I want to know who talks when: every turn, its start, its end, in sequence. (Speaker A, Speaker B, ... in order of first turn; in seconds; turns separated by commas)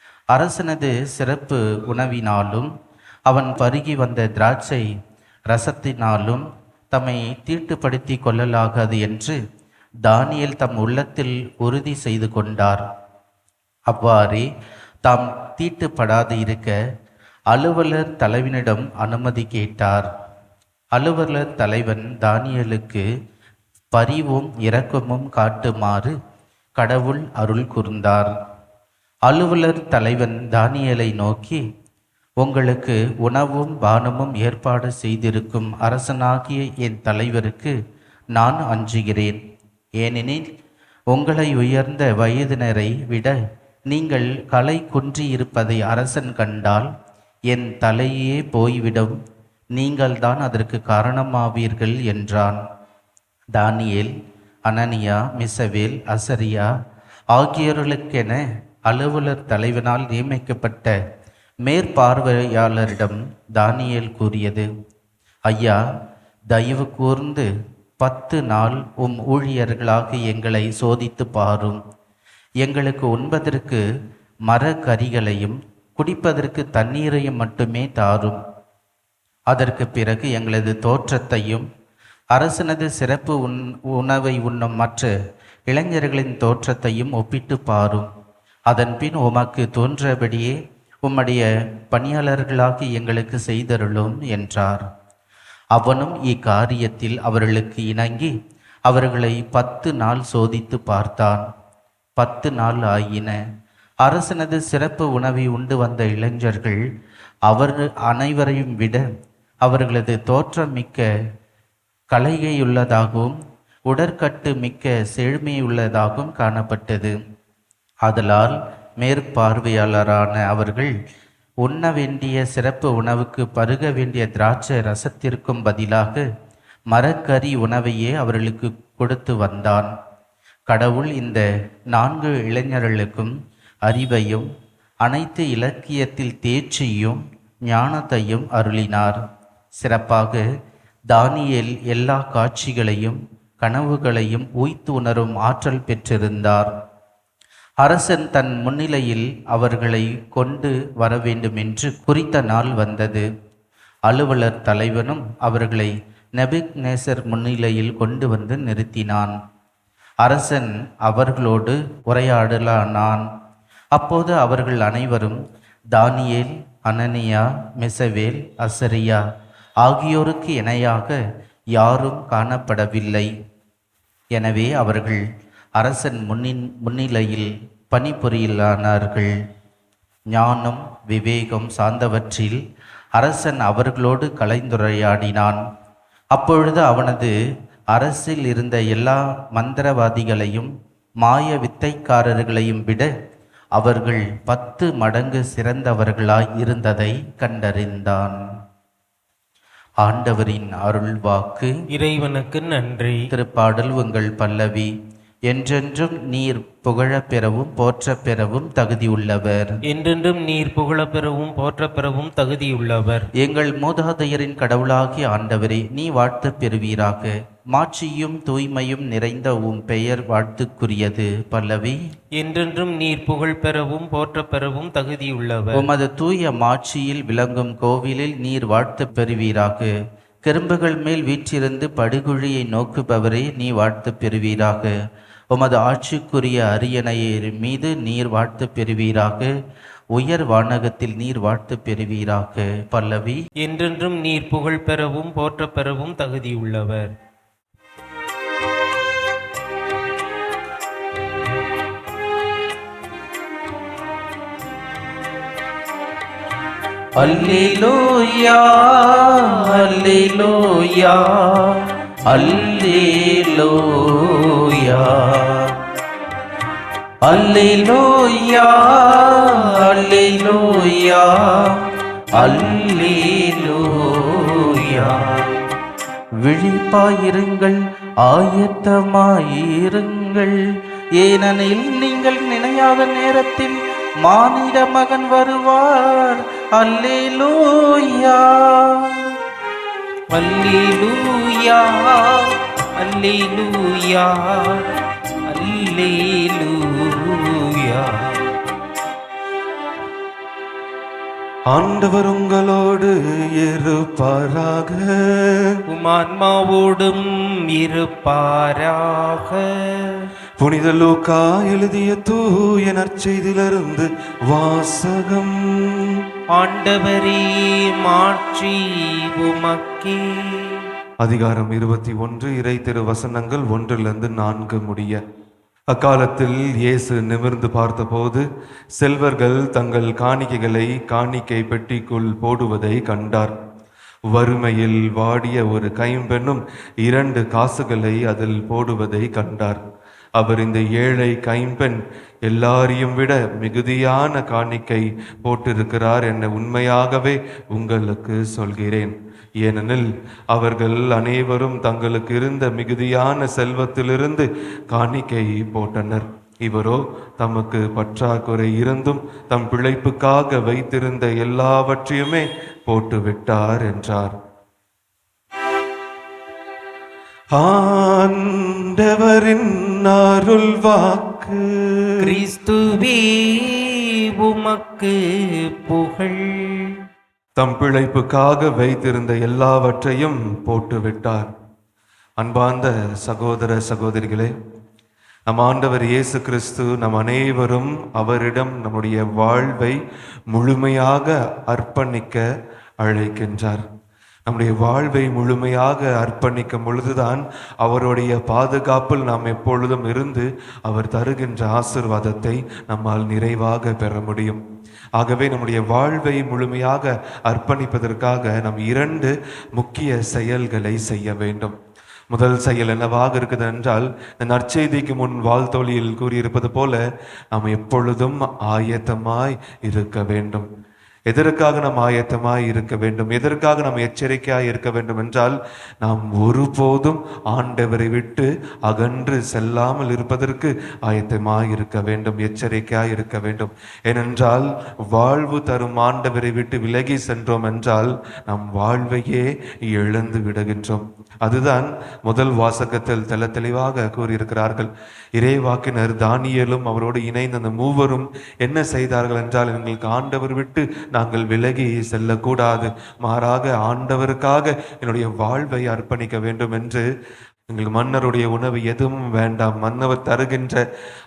Speaker A: 0.3-2.7, Speaker A: 3.3-4.9, Speaker A: 5.5-9.4, Speaker A: 10.1-12.8, Speaker A: 13.9-14.5, Speaker A: 15.1-16.8, Speaker A: 17.5-20.1, Speaker A: 21.0-23.1, Speaker A: 23.9-26.2, Speaker A: 26.8-28.3, Speaker A: 29.3-31.6, Speaker A: 32.4-37.8, Speaker A: 38.4-39.4, Speaker A: 40.0-40.5, Speaker A: 41.1-43.4, Speaker A: 43.9-46.9, Speaker A: 47.5-49.2, Speaker A: 49.8-52.6, Speaker A: 53.6-54.1, Speaker A: 54.7-56.7, Speaker A: 57.3-61.0, Speaker A: 61.7-64.7, Speaker A: 65.5-65.8, Speaker A: 66.5-67.5, Speaker A: 68.0-71.8, Speaker A: 72.6-73.8, Speaker A: 74.5-78.4, Speaker A: 79.5-81.7, Speaker A: 82.3-85.1, Speaker A: 85.7-88.1, Speaker A: 88.7-94.9, Speaker A: 95.8-98.3, Speaker A: 98.9-101.5, Speaker A: 102.2-103.4, Speaker A: 104.0-106.8, Speaker A: 107.5-109.1, Speaker A: 109.7-111.1, Speaker A: 112.1-113.4, Speaker A: 113.9-117.2, Speaker A: 118.1-120.9, Speaker A: 121.6-126.3, Speaker A: 126.9-129.9, Speaker A: 130.7-133.4, Speaker A: 133.9-134.5, Speaker A: 135.1-139.2, Speaker A: 139.8-140.4, Speaker A: 141.1-146.7, Speaker A: 147.8-153.3, Speaker A: 154.1-159.4, Speaker A: 160.2-163.2, Speaker A: 163.9-165.4, Speaker A: 165.9-169.2, Speaker A: 169.8-171.2, Speaker A: 171.8-173.3, Speaker A: 174.4-175.2, Speaker A: 175.8-179.4, Speaker A: 180.3-182.6, Speaker A: 183.2-185.6, Speaker A: 186.3-187.3, Speaker A: 187.9-190.7, Speaker A: 191.2-193.1, Speaker A: 193.8-198.4, Speaker A: 200.0-201.7, Speaker B: 201.9-203.2, Speaker A: 203.3-204.9, Speaker A: 205.5-209.8, Speaker B: 209.9-213.3, Speaker A: 213.4-222.0, Speaker B: 222.4-225.9, Speaker A: 225.8-229.9, Speaker A: 230.5-234.9, Speaker A: 235.5-239.5, Speaker A: 240.2-243.4, Speaker B: 243.6-247.1, Speaker A: 257.2-265.8, Speaker A: 267.3-275.6, Speaker A: 276.4-280.6, Speaker A: 281.2-289.3, Speaker B: 290.3-294.9, Speaker B: 295.5-298.5, Speaker C: 301.7-305.8, Speaker B: 305.9-310.3, Speaker C: 310.6-316.2, Speaker B: 316.5-320.9, Speaker C: 321.2-325.2, Speaker C: 325.9-333.5, Speaker C: 334.3-339.8, Speaker C: 340.4-364.4, Speaker C: 367.6-372.4, Speaker B: 372.2-377.0, Speaker C: 377.6-381.5, Speaker C: 382.4-384.5, Speaker C: 385.5-390.0, Speaker C: 390.5-392.4, Speaker C: 393.0-393.9, Speaker C: 394.5-404.6, Speaker C: 405.2-411.8, Speaker C: 412.3-417.0, Speaker C: 417.5-420.7, Speaker C: 421.3-457.1, Speaker C: 457.7-460.8